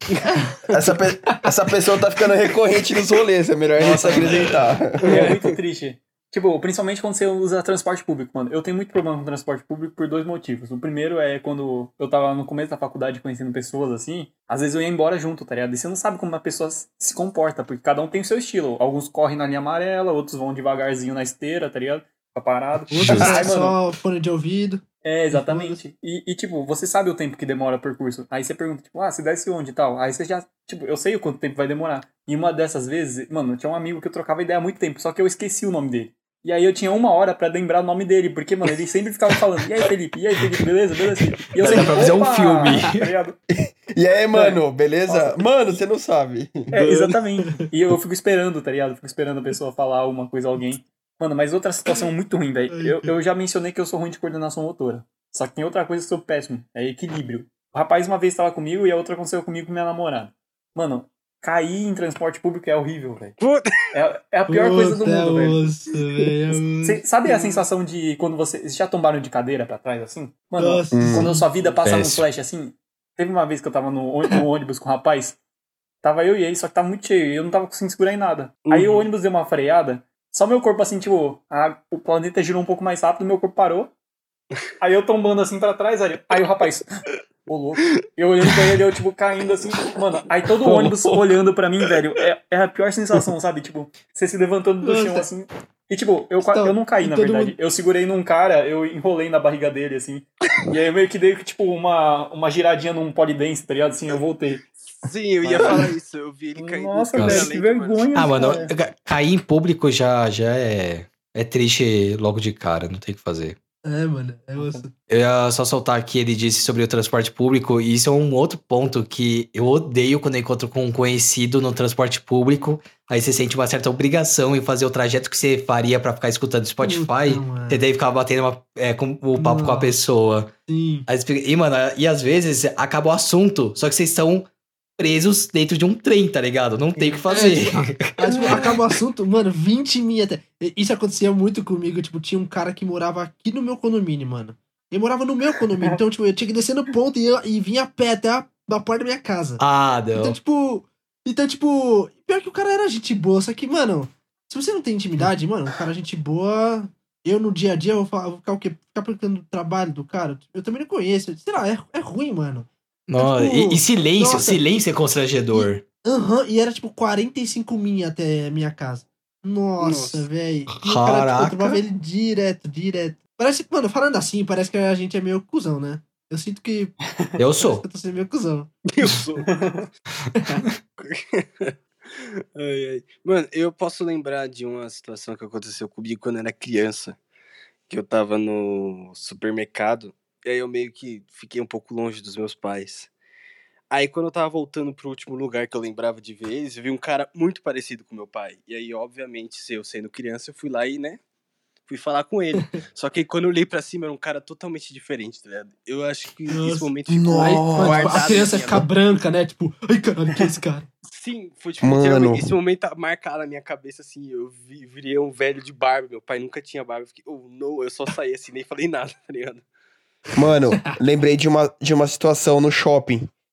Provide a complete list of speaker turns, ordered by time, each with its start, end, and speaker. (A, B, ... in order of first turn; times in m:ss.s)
0:00.7-0:05.3 A
0:03.8-0:23.8 B
0:05.0-0:05.4 C
0:22.9-0:25.8 D
0:23.0-0:23.4 E
0:25.0-0:43.4 B
0:41.6-0:43.1 E
0:43.5-0:46.7 A
0:44.3-0:45.4 B
0:46.7-1:03.4 B
0:46.8-0:47.2 C
0:52.7-0:53.1 D
1:03.4-1:03.9 C
1:03.9-1:05.6 B
1:04.5-1:07.6 D
1:06.8-1:15.4 B
1:10.6-1:11.4 D
1:10.9-1:11.3 A
1:11.8-1:12.2 E
1:16.0-1:23.9 B
1:18.6-1:19.1 C
1:24.8-1:44.7 B
1:34.8-1:35.3 D
1:36.4-1:37.5 D
1:44.9-1:48.4 C
1:45.4-1:45.9 B
1:46.6-1:48.7 B
1:47.2-1:47.5 E
1:48.1-1:53.6 E
1:53.8-1:54.9 D
1:54.6-1:54.8 B
1:55.1-2:10.5 E
2:06.8-2:07.8 D
2:09.4-2:09.9 D
2:10.7-2:11.1 D
2:11.1-2:18.6 E
2:17.0-2:17.2 B
2:17.3-2:29.6 D
2:18.3-2:18.6 B
2:29.6-2:30.4 E
2:30.1-2:44.6 D
2:43.1-2:45.8 E
2:45.5-2:57.0 D
2:49.8-2:50.2 C
2:50.8-2:51.8 E
2:57.4-2:57.8 E
2:57.6-2:58.7 D
2:58.9-2:59.5 C
2:59.4-2:59.8 B
3:01.0-3:07.2 C
3:07.9-3:13.1 C
3:13.9-3:21.2 C
3:21.8-3:28.9 C
3:26.5-3:30.9 D
3:27.1-3:28.6 A
3:31.1-3:39.6 C
3:31.8-3:32.5 A
3:40.4-3:43.3 A